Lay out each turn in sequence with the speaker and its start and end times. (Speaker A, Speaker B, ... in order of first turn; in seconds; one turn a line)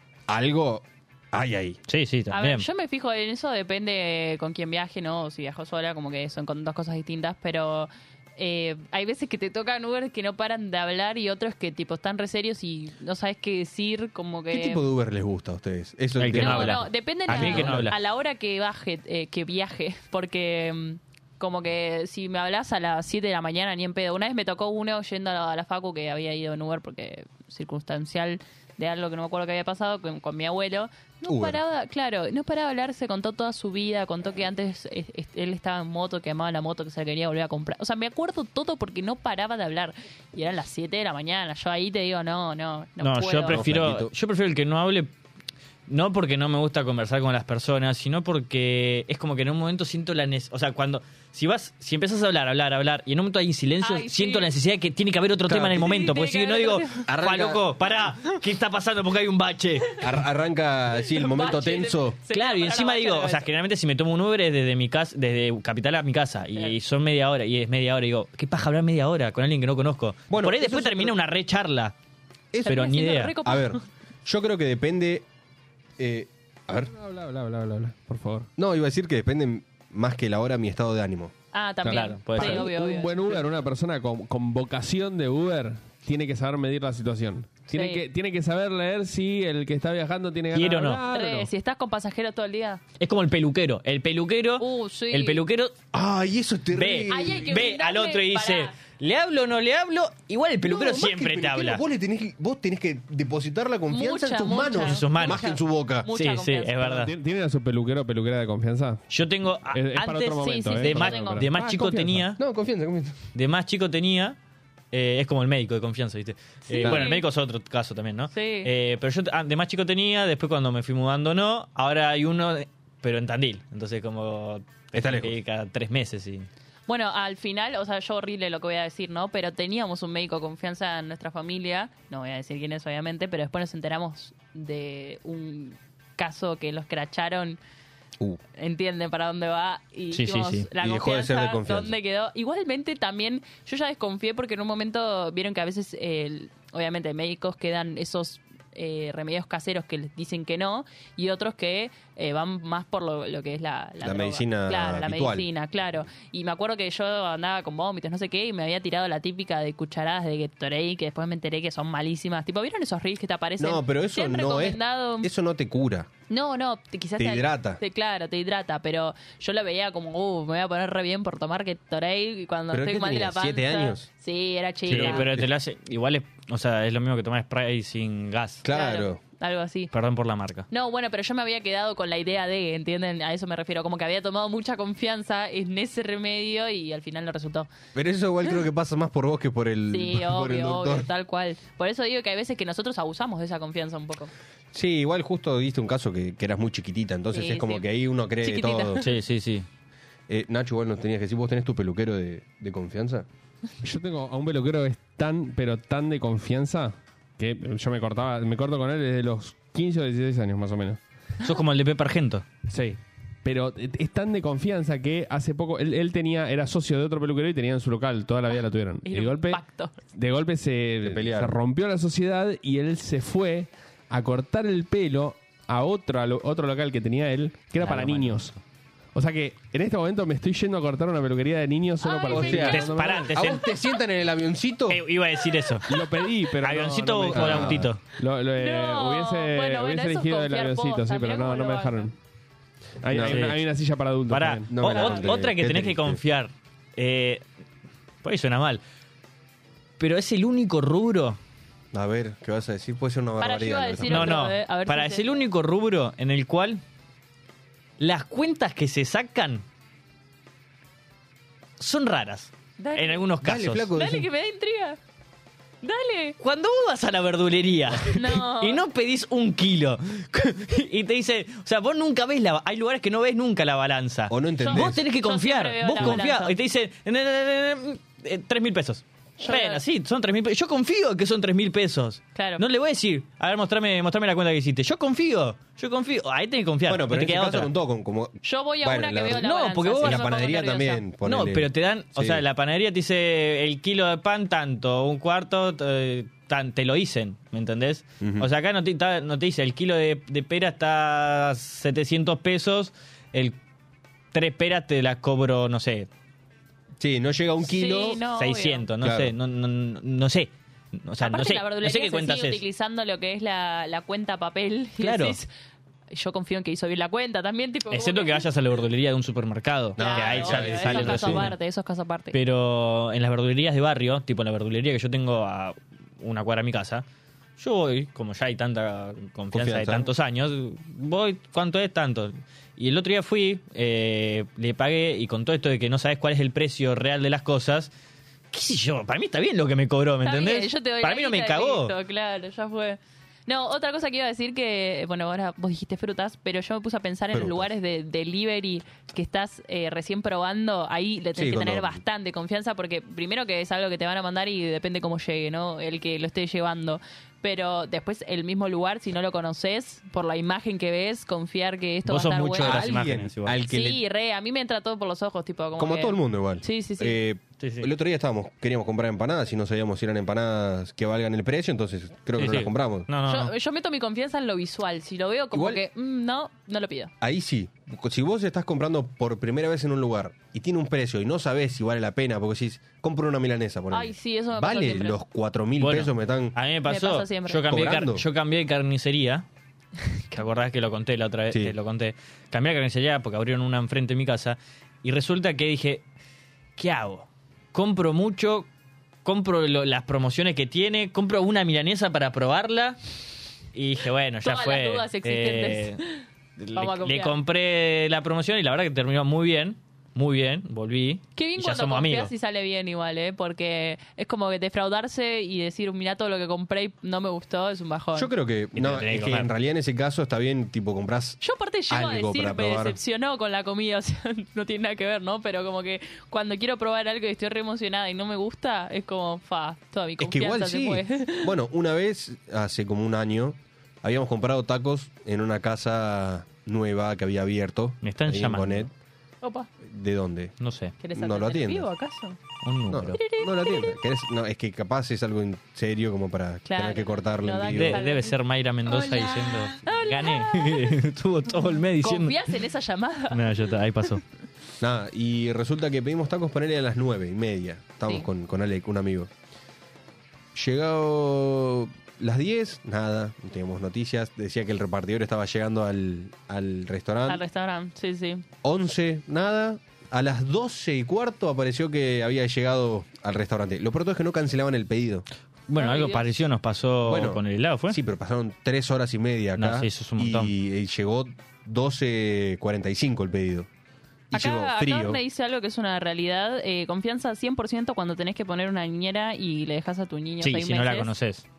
Speaker A: 0.3-1.8
Speaker B: 1.9-2.6
Speaker C: 2.3-14.8
Speaker A: 14.5-17.9
Speaker B: 16.2-17.9
Speaker C: 16.3-43.6
Speaker A: 31.3-31.6
Speaker B: 43.0-45.1
Speaker A: 43.5-44.1
Speaker B: 45.9-60.1
Speaker C: 53.8-54.5
Speaker A: 55.5-56.0
Speaker C: 55.8-57.1
Speaker A: 57.1-57.6
Speaker A: 60.0-62.2
Speaker C: 61.1-63.5
Speaker B: 62.3-71.9
Speaker A: 70.3-71.2
Speaker A: 72.5-72.8
Speaker C: 72.7-73.8
Speaker B: 72.7-73.4
Speaker A: 73.4-75.2
Speaker A: 76.0-76.9
Speaker D: 76.8-78.5
Speaker A: 78.6-81.3
Speaker C: 81.5-83.4
Speaker D: 81.8-91.5
Speaker B: 81.9-82.7
Speaker C: 87.7-88.0
Speaker B: 90.5-91.0
Speaker C: 91.1-92.8
Speaker B: 93.0-95.8
Speaker C: 94.6-95.4
Speaker A: 95.9-97.6
Speaker B: 96.7-101.8
Speaker C: 97.1-98.7
Speaker A: 100.6-106.1
Speaker C: 103.9-106.8
Speaker B: 104.8-105.5
Speaker B: 106.1-107.1
Speaker D: 106.8-109.0
Speaker B: 109.1-112.4
Speaker D: 109.7-112.3
Speaker C: 110.2-111.5
Speaker A: 112.3-113.2
Speaker B: 113.3-114.4
Speaker B: 114.9-126.5
Speaker C: 116.7-117.2
Speaker A: 116.8-117.1
Speaker C: 118.3-118.7
Speaker A: 124.9-125.3
Speaker C: 126.9-137.6
Speaker C: 138.6-165.3
Speaker B: 140.1-140.7
Speaker A: 140.8-142.0
Speaker A: 154.0-155.5
Speaker A: 163.6-166.1
Speaker C: 166.3-175.3
Speaker A: 167.2-167.8
Speaker A: 172.7-174.1
Speaker A: 174.9-175.5
Speaker B: 174.9-178.6
Speaker A: 178.6-179.2
Speaker C: 178.7-179.9
Speaker B: 179.9-180.7
Speaker C: 180.7-187.7
Speaker A: 187.9-191.1
Speaker C: 189.9-194.3
Speaker A: 194.7-199.1
Speaker C: 197.3-197.8
Speaker C: 198.4-199.1
Speaker B: 199.0-199.7
Speaker A: 200.3-203.2
Speaker D: 203.8-211.0
Speaker B: 211.4-212.4
Speaker D: 212.7-228.5
Speaker C: 219.0-219.9
Speaker A: 221.0-221.6
Speaker B: 227.8-228.6
Speaker D: 229.1-233.4
Speaker C: 232.0-233.0
Speaker A: 232.3-235.0
Speaker B: 232.6-233.7
Speaker B: 234.9-235.9
Speaker D: 235.9-242.1
Speaker B: 236.6-238.0
Speaker A: 237.3-237.9
Speaker C: 238.6-242.1
Speaker D: 243.0-244.7
Speaker A: 243.1-243.5
Speaker B: 243.2-243.6
Speaker B: 244.3-247.4
Speaker A: 244.7-246.2
Speaker C: 244.9-245.2
Speaker B: 248.2-248.8
Speaker B: 250.0-251.4
Speaker A: 251.9-254.4
Speaker C: 253.4-255.4
Speaker B: 254.1-256.8
Speaker B: 258.0-259.6
Speaker B: 261.8-263.9
Speaker C: 262.8-263.2
Speaker A: 263.4-264.3
Speaker C: 263.9-265.0
Speaker C: 265.8-266.4
Speaker B: 266.4-287.7
Speaker C: 268.1-268.8
Speaker A: 274.3-275.0
Speaker C: 274.6-276.5
Speaker C: 279.4-279.8
Speaker C: 282.3-282.6
Speaker A: 286.9-289.5
Speaker C: 288.4-291.0
Speaker B: 289.3-290.2
Speaker A: 290.0-292.4
Speaker B: 291.2-303.6
Speaker A: 298.2-298.5
Speaker B: 304.3-306.1
Speaker A: 307.0-308.2
Speaker C: 307.6-308.8
Speaker B: 308.4-312.6
Speaker A: 309.0-309.3
Speaker C: 311.2-315.5
Speaker B: 315.0-315.4
Speaker C: 316.1-318.5
Speaker B: 317.9-321.5
Speaker A: 320.0-321.5
Speaker C: 320.0-322.4
Speaker B: 322.3-327.0
Speaker B: 327.6-337.9
Speaker A: 329.5-330.1
Speaker B: 338.5-341.9
Speaker C: 340.2-362.9
Speaker A: 347.3-347.7
Speaker A: 351.3-352.0
Speaker B: 362.1-363.6
Speaker A: 362.6-364.0
Speaker C: 363.7-367.2
Speaker A: 365.8-373.1
Speaker B: 367.6-367.9
Speaker B: 372.4-373.5
Speaker C: 373.2-377.1
Speaker A: 375.5-375.8
Speaker A: 377.2-386.6
Speaker C: 383.9-385.2
Speaker B: 385.8-389.4
Speaker C: 386.8-387.6
Speaker A: 387.6-388.2
Speaker B: 390.3-396.0
Speaker B: 396.8-398.7
Speaker B: 399.2-403.0
Speaker B: 403.7-406.0
Speaker C: 404.4-407.4
Speaker B: 406.6-412.3
Speaker C: 411.4-418.3
Speaker A: 418.1-423.0
Speaker B: 418.7-419.5
Speaker C: 421.4-431.5
Speaker A: 430.2-438.9
Speaker B: 438.0-438.9
Speaker C: 439.4-439.7
Speaker A: 439.8-440.5
Speaker B: 440.6-440.9
Speaker C: 441.0-442.4
Speaker A: 441.1-441.9
Speaker B: 442.6-443.2
Speaker A: 442.9-448.0
Speaker C: 443.1-444.0
Speaker C: 446.6-448.4
Speaker B: 447.7-452.5
Speaker C: 448.9-451.0
Speaker C: 452.0-453.4
Speaker B: 453.3-454.2
Speaker A: 454.8-459.3
Speaker A: 460.5-467.4
Speaker C: 467.3-468.4
Speaker A: 468.6-475.2
Speaker B: 475.7-478.0
Speaker C: 475.8-476.3
Speaker A: 477.0-483.7
Speaker B: 479.6-480.5
Speaker A: 484.3-485.2
Speaker C: 484.3-491.1
Speaker B: 490.4-491.4